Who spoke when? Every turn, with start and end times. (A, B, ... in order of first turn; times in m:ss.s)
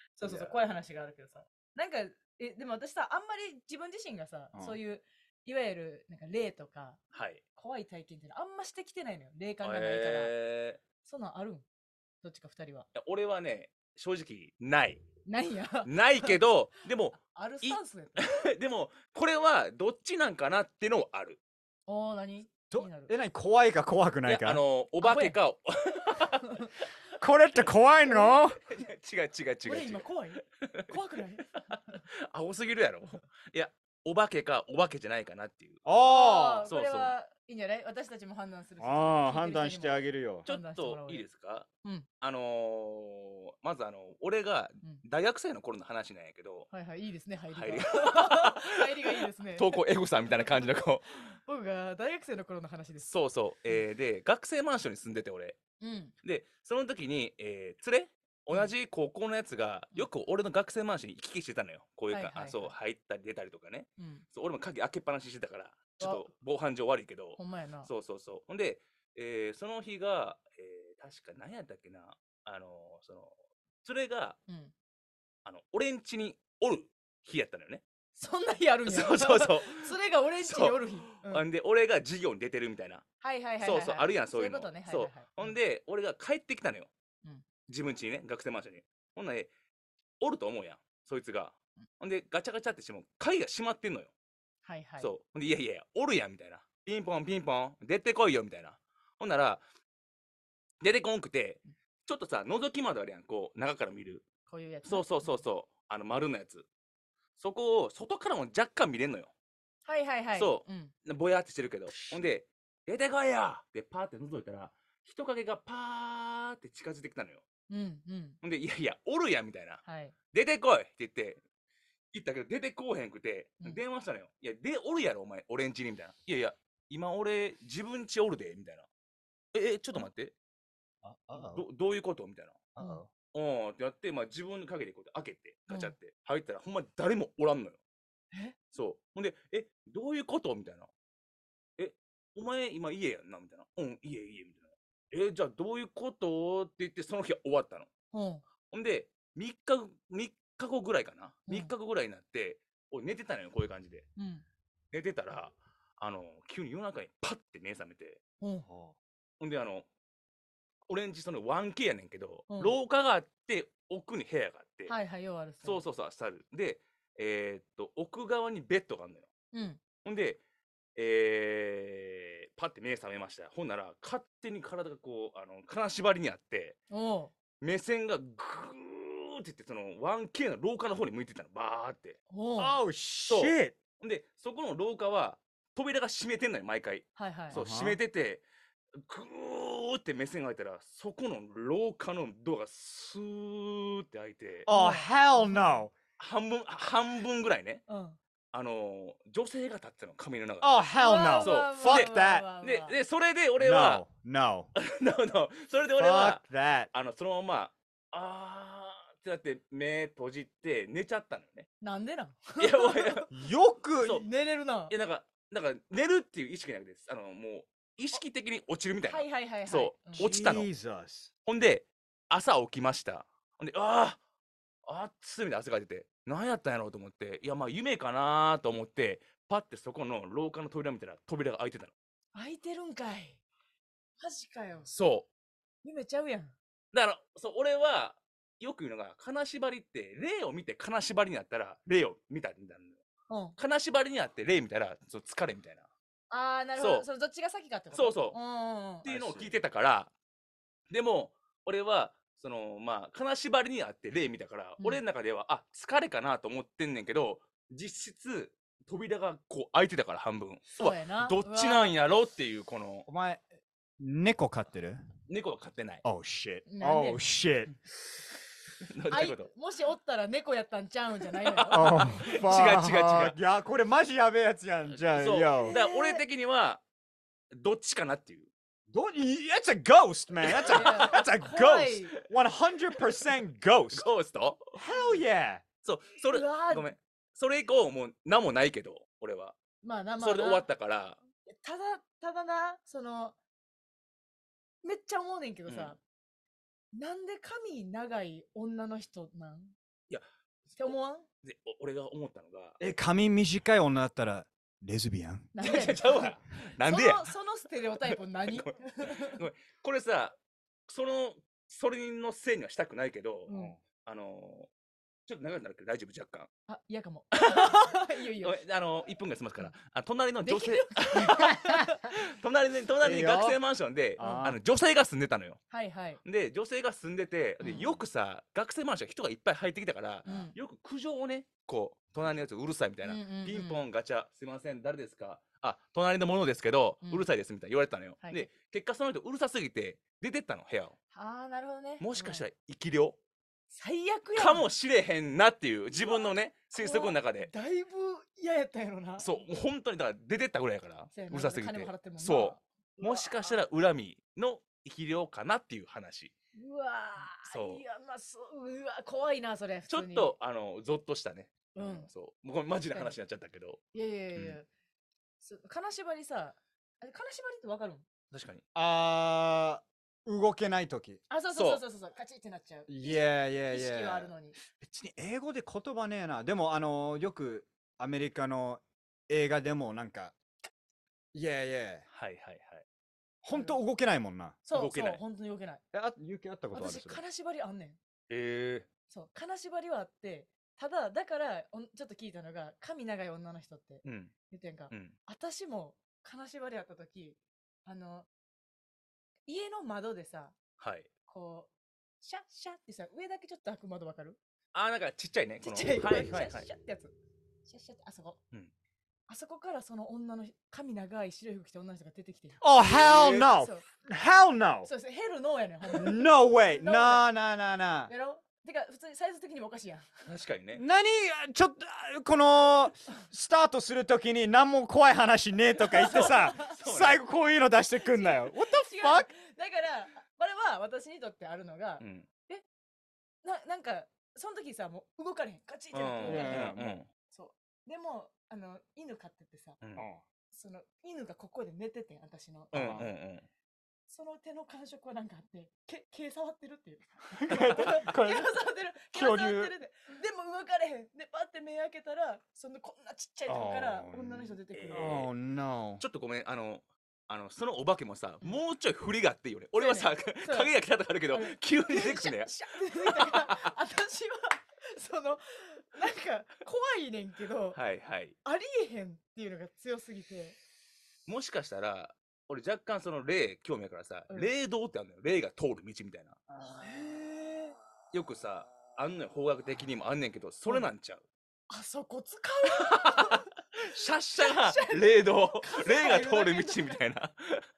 0:00.2-0:07.0 A
0:00.2-0:00.6 B
0:07.1-0:07.4 B
0:07.6-0:10.3 A
0:09.6-0:10.8 B
0:11.0-0:11.7 A
0:12.2-0:12.9 A
0:12.9-0:15.0 B
0:15.3-0:16.4 A
0:15.8-0:21.4 B
0:17.2-0:18.3 A
0:21.9-0:23.1 A
0:22.7-0:24.6 C
0:24.2-0:26.5 B
0:25.0-0:25.4 A
0:26.2-0:26.7 A
0:27.2-0:28.6 C
0:28.1-0:28.4 A
0:28.7-0:31.0 B
0:29.6-0:32.0 A
0:32.3-0:35.8 B
0:35.8-0:36.7 C
0:36.0-0:41.2 A
0:36.7-0:37.1 B
0:38.8-0:40.5 C
0:40.5-0:41.7 B
0:42.2-0:46.7 B
0:46.7-0:49.8 A
0:47.6-0:51.2 B
0:50.3-0:50.6 A
0:51.4-0:53.1 A
0:53.0-0:55.6 B
0:55.8-0:56.1 A
0:56.2-1:13.3 B
1:02.1-1:02.8 A
1:04.0-1:04.3 A
1:06.0-1:06.3 A
1:07.4-1:07.9 A
1:13.8-1:14.4 B
1:14.5-1:14.7 A
1:15.4-1:17.8 B
1:18.2-1:21.4 A
1:18.8-1:23.0 B
1:23.2-1:25.6 A
1:23.6-1:26.9 B
1:27.7-1:29.5 B
1:30.2-1:34.1 B
1:34.6-1:35.1 A
1:35.0-1:39.6 B
1:40.8-1:44.3 B
1:44.5-1:45.4 A
1:44.8-1:46.7 B
1:47.4-1:49.3 B
1:49.8-1:50.9 A
1:50.3-1:57.4 B
1:51.9-1:52.2 C
1:57.7-1:58.4 A
1:58.4-2:01.4 B
1:59.8-2:00.2 A
2:02.1-2:08.9 B
2:09.5-2:10.3 B
2:11.0-2:11.6 C
2:11.3-2:12.7 B
2:12.8-2:13.1 C
2:13.3-2:17.8 B
2:15.7-2:16.0 A
2:18.7-2:20.9 B
2:21.8-2:27.9 B
2:28.1-2:28.4 A
2:28.7-2:34.1 B
2:31.5-2:31.7 A
2:34.2-2:34.4 A
2:34.9-2:38.2 B
2:38.4-2:38.7 A
2:38.7-2:39.0 C
2:39.4-2:39.9 B
2:40.9-2:45.0 B
2:42.5-2:42.8 A
2:44.9-2:45.8 A
2:45.6-2:49.3 B
2:49.5-2:49.8 A
2:50.0-2:50.4 B
2:51.0-2:56.8 B
2:56.9-2:57.3 A
2:57.6-3:02.2 B
3:02.3-3:02.8 A
3:02.6-3:03.8 C
3:03.3-3:08.4 B
3:07.2-3:07.6 A
3:07.5-3:08.0 C
3:09.0-3:14.7 B
3:14.7-3:15.9 C
3:14.7-3:15.8 A
3:16.2-3:17.9 B
3:17.9-3:18.2 A
3:18.5-3:20.8 B
3:20.6-3:22.5 C
3:21.0-3:23.0 A
3:21.4-3:24.0 B
3:23.6-3:24.7 C
3:24.8-3:31.7 B
3:26.0-3:26.9 C
3:31.8-3:33.3 A
3:32.6-3:33.3 B
3:33.3-3:34.2 C
3:34.1-3:34.9 A
3:34.9-3:40.7 B
3:39.0-3:40.3 A
3:40.2-3:41.3 C
3:41.5-3:44.2 B
3:44.9-3:51.9 B
3:52.3-3:53.4 A
3:54.2-3:54.9 A
3:54.9-3:55.3 B
3:55.8-3:56.6 A
3:56.9-4:03.0 B
4:03.3-4:03.6 A
4:03.6-4:05.9 B
4:06.3-4:09.1 A
4:06.8-4:07.1 B
4:07.9-4:08.4 B
4:09.0-4:10.1 B
4:09.0-4:09.6 C
4:10.9-4:23.1 B
4:20.8-4:22.0 A
4:23.1-4:23.4 C
4:24.0-4:25.0 C
4:25.3-4:26.0 B
4:26.0-4:27.7 C
4:26.7-4:27.2 A
4:29.0-4:29.5 B
4:29.1-4:32.5 A
4:31.3-4:33.4 B
4:31.7-4:35.8 C
4:34.9-4:36.8 B
4:35.7-4:36.2 A
4:37.6-4:38.5 B
4:38.9-4:44.1 C
4:40.5-4:41.2 B
4:40.7-4:42.2 A
4:43.9-4:44.6 B
4:44.7-4:45.6 C
4:45.8-4:49.6 B
4:46.2-4:47.0 A
4:49.8-4:50.7 A
4:50.2-4:51.2 B
4:51.5-4:53.4 A
4:54.8-4:56.0 A
4:55.7-4:56.0 B
4:56.9-4:59.7 A
5:00.8-5:01.3 A
5:01.4-5:02.8 B
5:02.8-5:05.5 C
5:05.6-5:09.4 A
5:05.6-5:07.3 B
5:08.0-5:10.4 B
5:10.9-5:14.7 B
5:13.5-5:13.8 A
5:15.3-5:16.5 B
5:16.7-5:18.6 A
5:17.5-5:17.8 B
5:18.4-5:25.7 B
5:20.4-5:22.0 A
5:23.0-5:23.6 C
5:24.2-5:24.6 C
5:24.2-5:24.6 A
5:25.7-5:26.2 A
5:26.2-5:41.0 B
5:27.6-5:28.0 A
5:30.2-5:30.6 A
5:33.0-5:33.8 A
5:38.2-5:38.5 A
5:41.1-5:42.4 A
5:42.0-5:43.2 B
5:43.7-5:44.7 A
5:44.3-5:47.5 B
5:46.0-5:49.4 A
5:49.2-5:56.3 B
5:51.1-5:53.6 A
5:56.6-6:00.4 A
5:57.3-5:57.8 B
5:59.9-6:03.8 B
6:01.8-6:02.1 A
6:02.9-6:03.2 A
6:03.9-6:04.7 A
6:05.4-6:08.0 A
6:08.3-6:08.6 B
6:08.8-6:11.2 C
6:11.3-6:14.6 A
6:11.5-6:11.8 B
6:12.9-6:20.4 C
6:21.3-6:22.1 C
6:22.1-6:22.8 B
6:23.4-6:24.6 C
6:23.5-6:23.8 A
6:24.7-6:25.8 A
6:24.7-6:25.2 B
6:25.9-6:27.2 C
6:26.7-6:28.0 A
6:28.3-6:28.9 B
6:29.1-6:38.3 A
6:34.0-6:34.3 B
6:34.9-6:35.2 B
6:39.5-6:40.6 A
6:40.8-6:41.1 B
6:41.3-6:44.4 A
6:44.7-6:46.7 B
6:45.6-6:47.1 A
6:47.6-6:48.4 A
6:49.3-6:52.6 A
6:52.6-6:54.9 C
6:52.8-6:53.5 B
6:53.4-6:53.9 A
6:54.8-6:57.3 A
6:56.0-6:58.1 C
6:58.1-7:00.3 A
7:00.3-7:00.8 B
7:00.7-7:09.3 C
7:06.0-7:06.6 A
7:06.1-7:07.2 B
7:08.0-7:12.6 A
7:12.0-7:12.3 B
7:13.4-7:16.8 A
7:15.9-7:17.1 B
7:16.2-7:17.0 C
7:17.3-7:19.8 A
7:20.0-7:20.2 C
7:20.5-7:23.1 A
7:22.7-7:23.1 C
7:22.7-7:23.5 B
7:24.1-7:35.3 A
7:27.3-7:28.5 C
7:29.1-7:29.7 C
7:33.5-7:36.0 C
7:34.7-7:35.3 B
7:36.0-7:43.7 B
7:39.8-7:40.7 A
7:41.3-7:47.8 A
7:47.7-7:48.4 B
7:48.4-7:50.6 A
7:51.3-7:56.4 B
7:56.5-7:57.2 C
7:56.8-7:57.8 A
7:58.1-8:01.3 B
8:01.7-8:03.4 A
8:02.8-8:07.7 B
8:04.4-8:07.0 A